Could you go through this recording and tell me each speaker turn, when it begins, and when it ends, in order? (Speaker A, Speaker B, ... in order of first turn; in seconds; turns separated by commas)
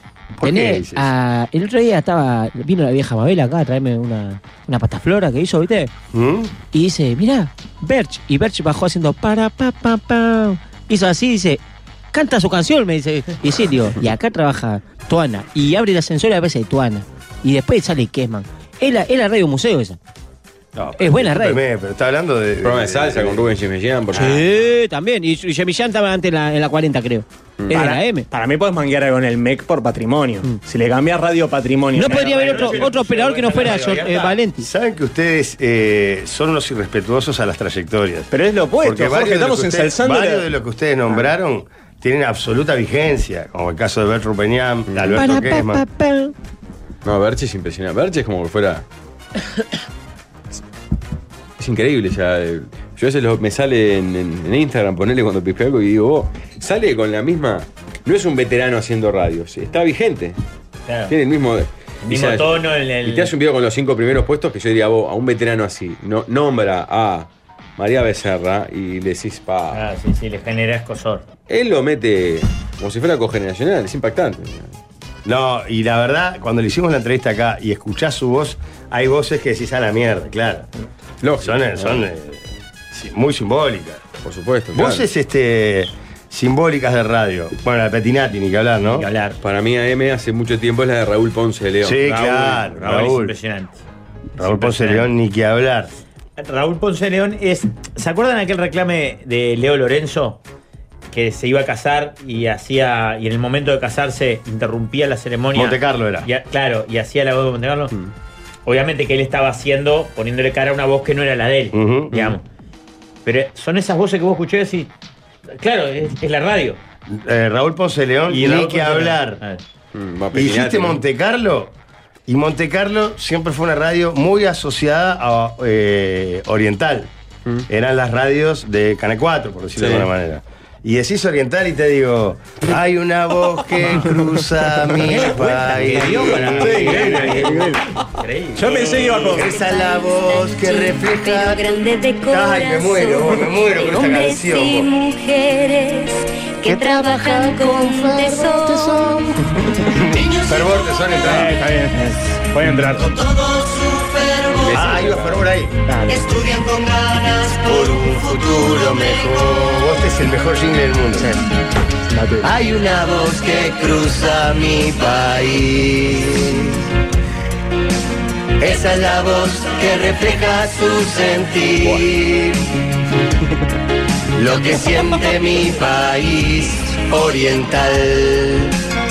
Speaker A: 0.4-1.1, Speaker B: 0.4-5.9, Speaker A: 6.1-6.5, Speaker B: 6.7-11.6, Speaker B: 12.1-20.0, Speaker A: 20.8-23.6, Speaker B: 21.0-21.6, Speaker C: 22.6-24.5, Speaker B: 24.1-28.3, Speaker D: 27.7-32.9, Speaker B: 31.9-34.7, Speaker E: 32.1-34.4, Speaker A: 34.6-38.3, Speaker D: 38.3-40.5, Speaker A: 38.8-45.9, Speaker B: 45.1-46.3, Speaker C: 47.0-48.9, Speaker C: 51.6-60.4, Speaker E: 60.9-61.1, Speaker C: 61.1-69.8, Speaker E: 62.0-63.3, Speaker E: 69.7-71.3, Speaker C: 71.5-74.7, Speaker A: 75.2-80.7, Speaker C: 81.2-82.0, Speaker A: 81.4-84.0, Speaker C: 84.2-85.0, Speaker A: 84.8-89.1, Speaker E: 88.9-89.4, Speaker C: 89.4-92.0, Speaker A: 91.8-93.3, Speaker E: 92.0-93.8, Speaker E: 94.4-95.1, Speaker A: 94.4-95.9, Speaker E: 96.4-100.4, Speaker E: 101.1-107.9, Speaker A: 105.5-106.3, Speaker E: 108.7-112.4, Speaker A: 111.7-112.3, Speaker E: 113.2-114.9, Speaker E: 115.5-116.8, Speaker A: 117.1-119.4, Speaker E: 118.3-119.6, Speaker C: 119.9-121.0, Speaker A: 120.3-121.7, Speaker A: 122.3-127.1, Speaker A: 127.7-137.5, Speaker C: 129.8-130.1, Speaker E: 134.9-138.9, Speaker D: 136.6-137.8, Speaker D: 138.6-139.6, Speaker A: 139.2-141.7, Speaker F: 139.3-149.2, Speaker A: 142.3-144.9, Speaker A: 146.7-151.6, Speaker D: 151.2-153.2, Speaker A: 153.3-161.3, Speaker C: 154.6-155.4, Speaker D: 155.9-156.2, Speaker D: 161.2-161.4, Speaker D: 162.1-162.5, Speaker A: 162.4-166.8, Speaker A: 168.6-172.7, Speaker A: 174.4-178.7